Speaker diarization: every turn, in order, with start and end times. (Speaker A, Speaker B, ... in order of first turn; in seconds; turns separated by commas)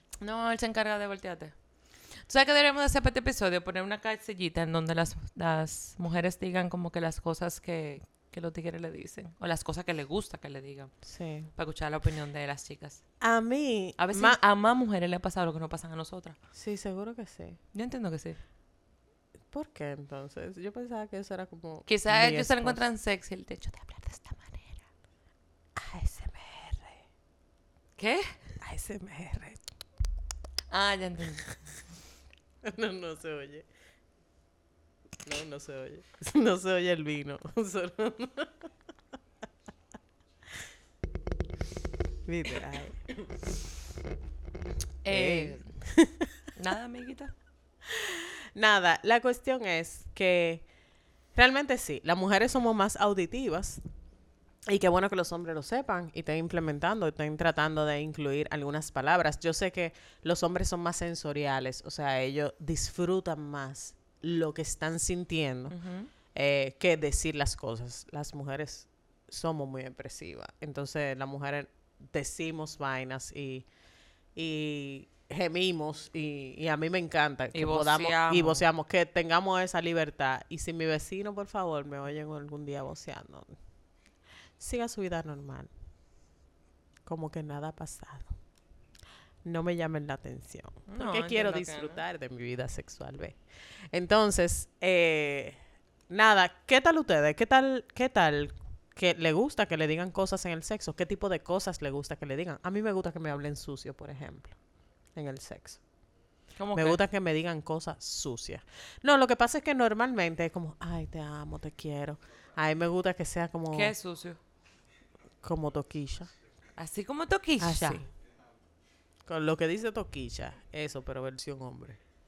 Speaker A: 0.2-1.5, Speaker A: 2.3-10.9, Speaker B: 11.0-11.5, Speaker A: 11.6-13.0, Speaker B: 13.2-14.4, Speaker A: 14.0-16.4, Speaker B: 16.5-17.6, Speaker A: 17.7-18.4, Speaker B: 19.5-22.9, Speaker A: 21.9-24.9, Speaker B: 25.8-27.1, Speaker A: 28.0-28.4, Speaker B: 28.6-29.6, Speaker A: 30.7-31.5, Speaker B: 32.6-33.7, Speaker B: 35.2-38.7, Speaker B: 42.3-43.3, Speaker A: 45.0-45.8, Speaker B: 45.1-46.3, Speaker A: 46.5-47.3, Speaker B: 47.9-50.7, Speaker B: 51.4-53.8, Speaker B: 54.7-65.8, Speaker A: 65.7-66.1, Speaker B: 66.3-73.7, Speaker B: 74.3-83.6, Speaker A: 77.5-78.6, Speaker B: 84.6-85.7, Speaker B: 87.1-88.3, Speaker B: 89.5-93.4, Speaker A: 90.9-92.0, Speaker B: 93.9-95.6, Speaker B: 96.1-104.6, Speaker B: 105.2-105.8, Speaker A: 106.6-107.0, Speaker B: 106.7-113.9, Speaker A: 113.7-114.4, Speaker B: 115.4-116.3, Speaker A: 116.8-118.1, Speaker B: 117.6-118.1, Speaker B: 119.3-122.0